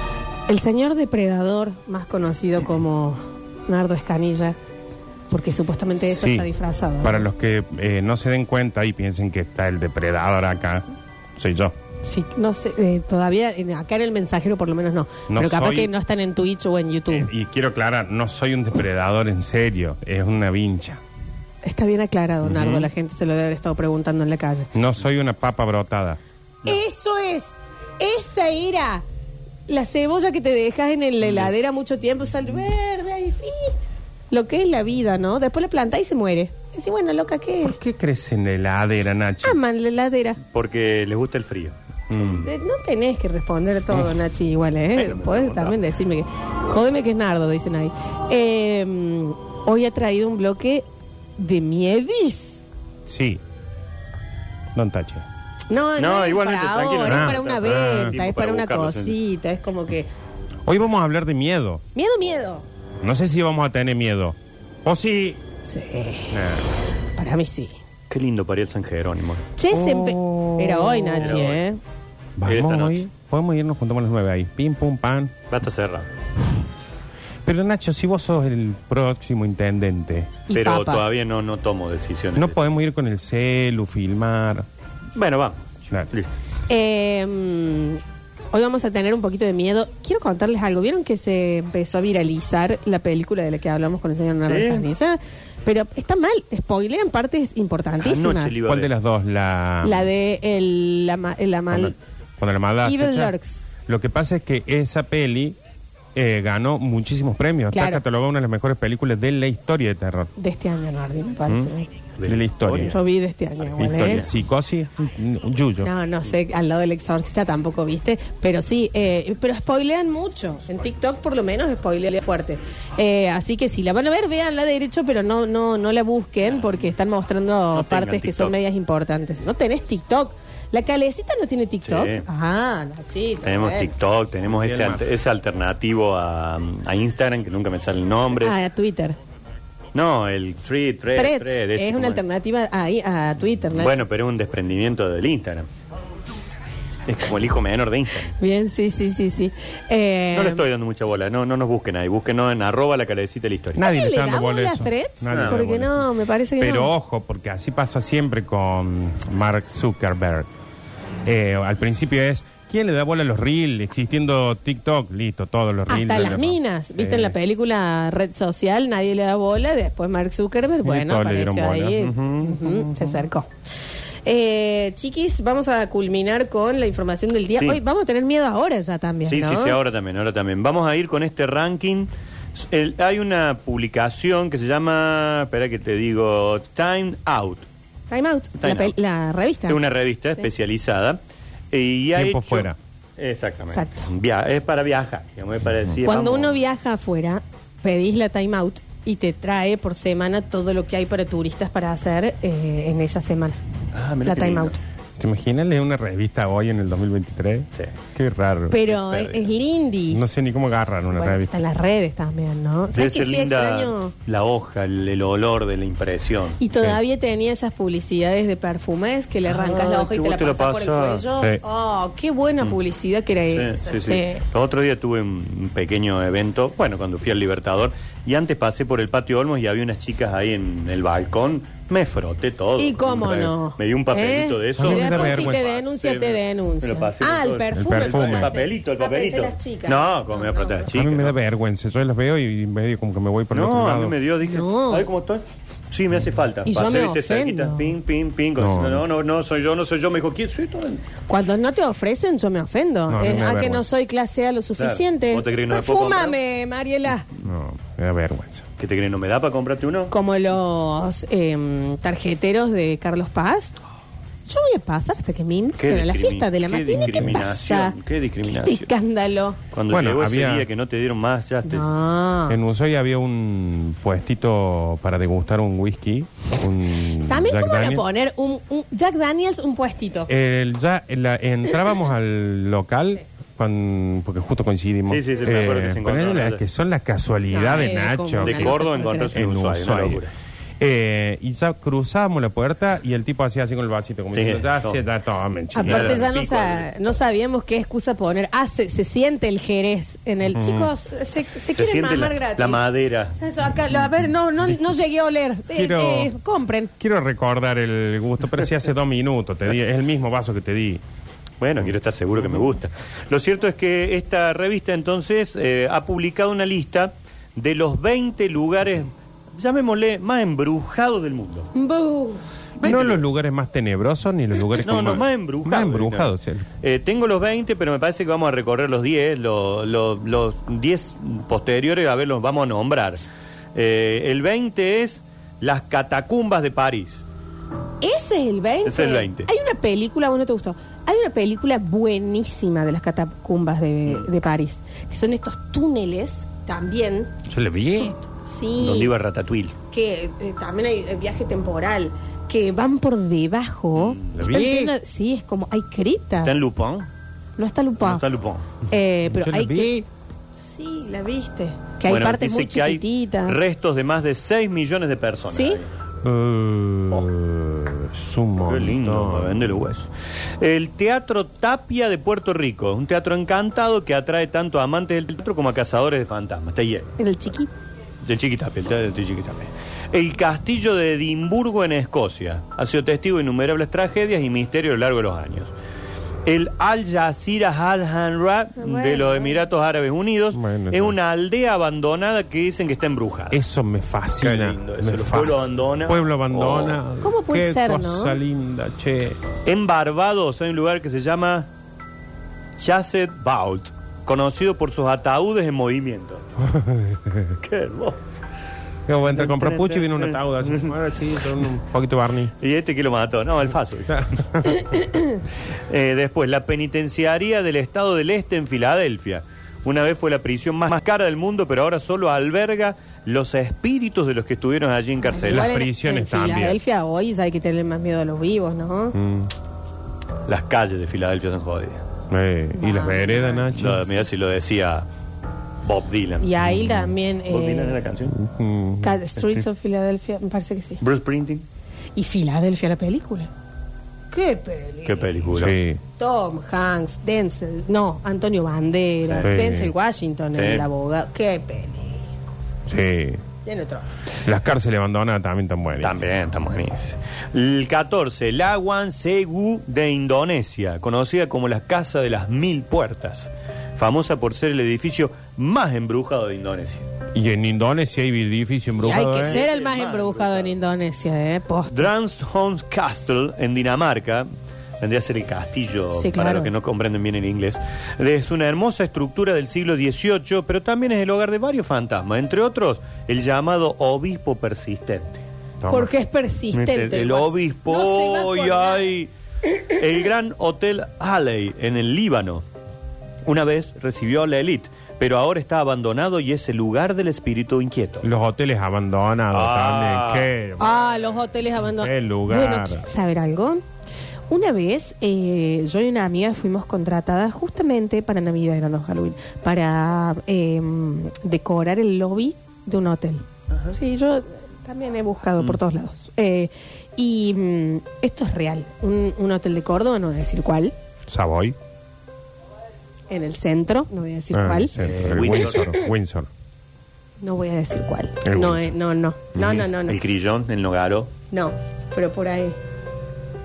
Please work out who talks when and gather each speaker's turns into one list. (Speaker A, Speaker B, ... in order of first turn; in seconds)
Speaker A: 0.5-4.5, 5.3-7.2, 12.0-17.3, 21.6-24.7, 26.6-29.0, 29.7-33.8, 34.3-37.8, 39.4-40.4, 42.4-50.9, 51.4-52.6, 55.7-60.1, 61.9-62.6, 65.6-66.4, 67.2-67.8, 69.5-71.8, 80.5-81.0, 86.7-98.6, 99.8-101.9, 102.8-103.6, 107.7-108.0, 110.4-111.9, 112.8-114.2, 115.8-133.9, 138.4-139.2, 141.1-144.0, 148.4-150.7, 153.8-156.9, 165.9-173.5, 174.2-179.8, 188.1-189.8, 193.7-194.1, 196.0-203.6, 204.2-204.8, 208.7-210.3, 211.1-214.1, 216.6-224.4, 232.8-240.9, 244.4-245.1, 246.6-247.9, 251.3-257.3, 260.1-263.7, 264.4-269.6, 271.6-272.6, 277.2-280.3, 287.5-289.4, 295.7-302.8, 303.4-306.9, 321.7-322.4, 338.0-349.1, 349.9-356.6, 357.6-358.2, 358.9-359.9, 360.6-363.6, 365.5-365.8, 377.2-377.7, 388.8-389.6, 397.2-398.4, 425.2-429.2, 432.8-433.8, 436.4-438.0, 439.0-441.0, 442.1-443.5, 444.3-445.5, 446.2-452.4, 453.6-454.1, 469.0-472.1, 476.1-476.7, 485.9-489.1, 500.8-503.8, 504.5-520.9, 523.3-524.9, 525.8-526.0, 527.4-530.2, 531.5-532.8
Speaker B: 6.1-6.5, 7.0-10.8, 11.3-11.7, 15.3-15.9, 17.1-21.0, 24.7-26.2, 37.6-39.6, 42.1-42.5, 53.0-53.4, 54.7-55.2, 57.0-58.1, 60.6-61.8, 63.0-65.4, 66.3-66.7, 69.7-71.4, 72.4-75.3, 77.4-80.4, 82.3-84.7, 98.6-100.0, 101.7-103.3, 103.8-105.6, 106.1-110.3, 112.2-113.0, 113.8-115.9, 134.5-135.0, 153.7-156.1, 156.6-160.5, 161.2-167.3, 170.8-173.2, 192.1-192.8, 205.2-208.8, 210.1-211.5, 234.8-235.6, 237.7-238.6, 240.9-244.2, 248.6-249.0, 253.1-253.8, 257.4-258.6, 267.0-267.4, 269.9-270.7, 272.5-278.0, 280.3-290.2, 290.8-296.3, 300.5-300.9, 305.7-306.3, 307.0-311.0, 322.8-326.7, 347.5-348.1, 354.3-354.9, 359.2-360.1, 366.2-369.7, 390.5-391.2, 393.5-399.4, 406.6-407.6, 409.1-412.5, 414.1-415.0, 425.5-426.8, 429.1-429.5, 432.3-434.2, 436.6-437.1, 438.3-439.2, 445.5-446.0, 449.4-449.9, 452.9-453.4, 454.4-456.2, 467.3-469.6, 485.8-486.1, 498.2-501.1, 501.8-503.1, 521.3-521.8, 524.5-526.5, 528.4-528.9, 529.5-529.9
Speaker C: 40.5-42.5, 44.9-45.8, 56.0-59.2, 68.1-69.4, 71.2-71.6, 72.4-73.0, 75.5-76.1, 80.5-82.7, 85.1-85.6, 94.4-94.9, 98.0-98.9, 112.2-113.0, 113.8-114.3, 127.7-128.5, 131.8-132.2, 133.4-138.6, 139.9-142.2, 143.7-145.7, 147.1-148.3, 150.3-153.8, 155.3-155.6, 179.2-187.7, 188.6-188.9, 189.7-191.2, 191.7-196.6, 203.9-204.7, 208.8-209.5, 212.9-216.6, 219.5-221.2, 223.5-241.3, 243.5-251.0, 254.8-256.4, 258.8-260.1, 265.8-268.9, 269.7-271.9, 285.1-286.6, 288.4-290.3, 294.3-295.0, 295.8-296.9, 301.7-303.4, 311.6-321.7, 322.8-323.2, 324.8-337.2, 338.8-339.5, 348.8-349.7, 353.9-354.4, 356.4-357.1, 358.0-358.7, 362.1-365.9, 368.6-377.1, 378.2-385.7, 386.4-393.6, 394.4-397.0, 399.6-401.7, 402.8-406.4, 407.6-408.2, 409.3-410.9, 412.6-414.3, 415.9-425.8, 430.4-432.0, 433.7-435.1, 435.8-436.5, 437.5-438.4, 441.0-441.6, 445.0-445.8, 449.2-449.5, 450.5-450.9, 456.0-467.1, 469.2-470.8, 471.9-474.5, 475.0-485.4, 486.7-489.3, 489.9-492.6, 493.4-498.3, 499.5-500.5, 525.0-525.9, 530.0-531.3